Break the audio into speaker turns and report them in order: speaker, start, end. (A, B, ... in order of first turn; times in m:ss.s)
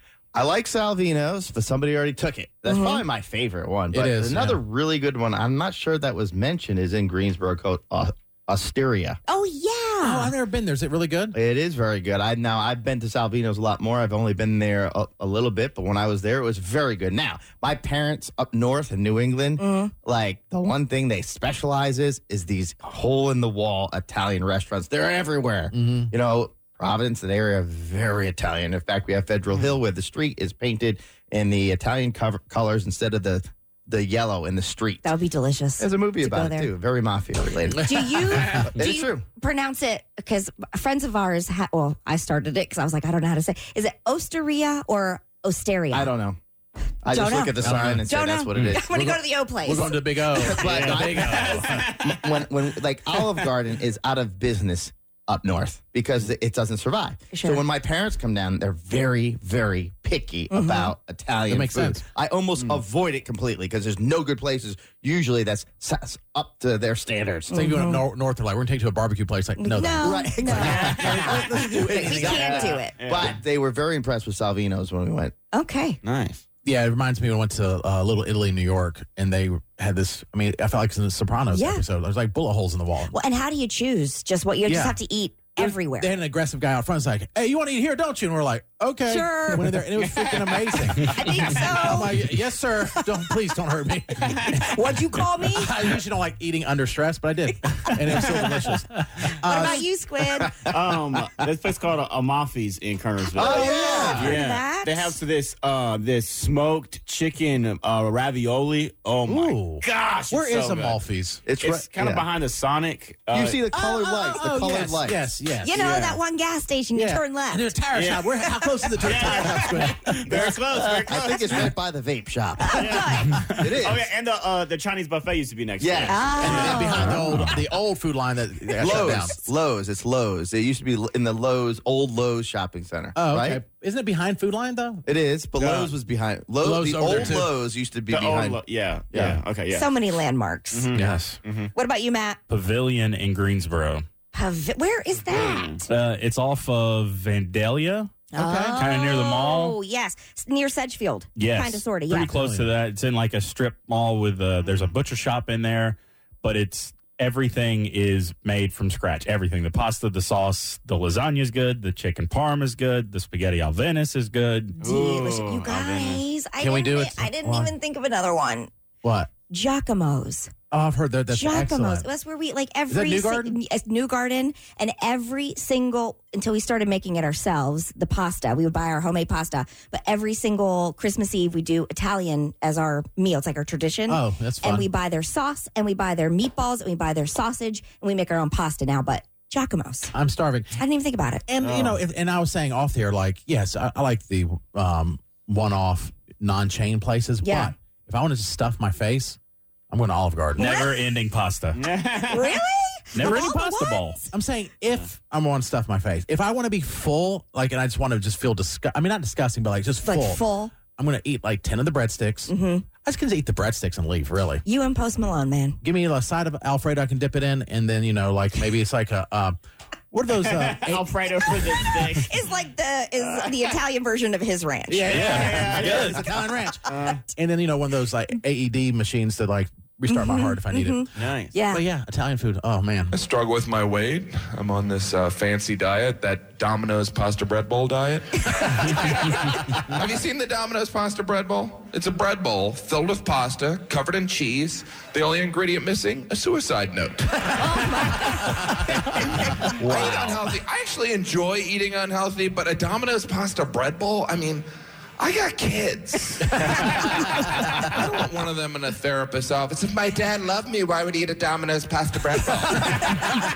0:00.3-0:09.2 A
0:02.7-0:03.0 B
0:03.9-0:04.6 C
0:09.3-0:10.3 B
0:10.0-0:11.4 C
0:11.3-0:35.1 A
0:19.6-0:19.9 B
0:25.7-0:26.1 C
0:35.0-0:36.7 B
0:35.8-0:39.2 A
0:37.8-0:46.1 B
0:45.9-0:46.4 A
0:47.0-0:48.8 A
0:47.1-0:50.6 B
0:47.6-0:51.9 C
0:50.3-1:07.5 A
0:50.7-0:52.4 D
0:57.3-0:57.6 B
1:00.5-1:00.9 B
1:01.5-1:02.0 C
1:07.5-1:08.0 B
1:07.5-1:12.5 C
1:09.6-1:13.0 B
1:10.0-1:15.3 A
1:10.6-1:13.4 D
1:15.5-1:16.0 B
1:16.0-1:16.4 D
1:16.6-1:23.1 C
1:21.5-1:21.8 B
1:23.1-1:26.1 B
1:24.6-1:25.0 C
1:25.6-1:39.9 C
1:29.1-1:29.6 B
1:30.1-1:30.8 D
1:31.1-1:32.1 B
1:34.2-1:34.6 D
1:34.7-1:35.7 B
1:39.4-1:40.6 B
1:40.6-1:51.0 D
1:43.3-1:44.3 A
1:43.4-1:45.2 B
1:49.3-1:51.9 C
1:51.4-1:52.2 A
1:51.6-1:53.6 D
1:53.3-1:55.3 A
1:53.7-1:55.9 C
1:55.6-1:57.7 B
1:55.7-1:56.2 D
1:56.9-2:00.5 C
1:57.9-1:58.3 D
1:59.0-2:01.7 D
2:00.7-2:04.1 A
2:02.6-2:03.4 B
2:02.8-2:07.4 D
2:05.8-2:07.1 A
2:06.1-2:07.2 B
2:06.4-2:09.4 C
2:08.8-2:13.6 A
2:13.1-2:15.0 C
2:15.0-2:19.4 A
2:15.6-2:16.0 D
2:16.6-2:17.5 C
2:18.1-2:20.0 D
2:19.7-2:20.9 B
2:20.7-2:21.7 D
2:20.9-2:21.4 C
2:21.7-2:22.4 B
2:22.5-2:24.0 E
2:24.3-2:25.8 B
2:25.3-2:25.8 D
2:25.8-2:28.1 E
2:28.3-2:32.4 B
2:28.4-2:28.8 C
2:28.7-2:29.8 E
2:31.4-2:44.8 E
2:32.3-2:32.7 C
2:44.8-2:48.7 B
2:44.8-2:46.2 D
2:46.6-2:47.7 C
2:49.0-2:49.3 C
2:49.5-2:50.5 B
2:50.7-2:52.1 C
2:51.3-3:10.1 B
2:52.9-2:53.6 C
3:04.1-3:04.9 C
3:10.1-3:10.8 C
3:10.7-3:11.4 B
3:11.5-3:19.4 C
3:11.6-3:12.0 D
3:17.4-3:17.7 B
3:19.9-3:20.7 C
3:20.6-3:21.0 B
3:20.6-3:21.8 E
3:21.7-3:22.6 D
3:22.2-3:24.3 B
3:23.1-3:24.2 E
3:24.3-3:34.6 C
3:30.0-3:30.7 B
3:32.5-3:32.8 B
3:34.6-3:35.8 B
3:35.8-3:39.6 C
3:40.1-3:41.8 C
3:40.4-3:42.3 D
3:42.2-3:46.1 B
3:43.2-3:43.5 D
3:44.9-3:51.1 C
3:45.0-3:46.3 D
3:46.9-3:47.2 D
3:50.1-3:51.8 B
3:51.2-3:51.6 D
3:51.7-3:53.2 C
3:53.1-3:59.3 F
3:59.9-4:07.9 F
4:07.6-4:08.6 B
4:09.3-4:14.6 F
4:15.2-4:23.3 F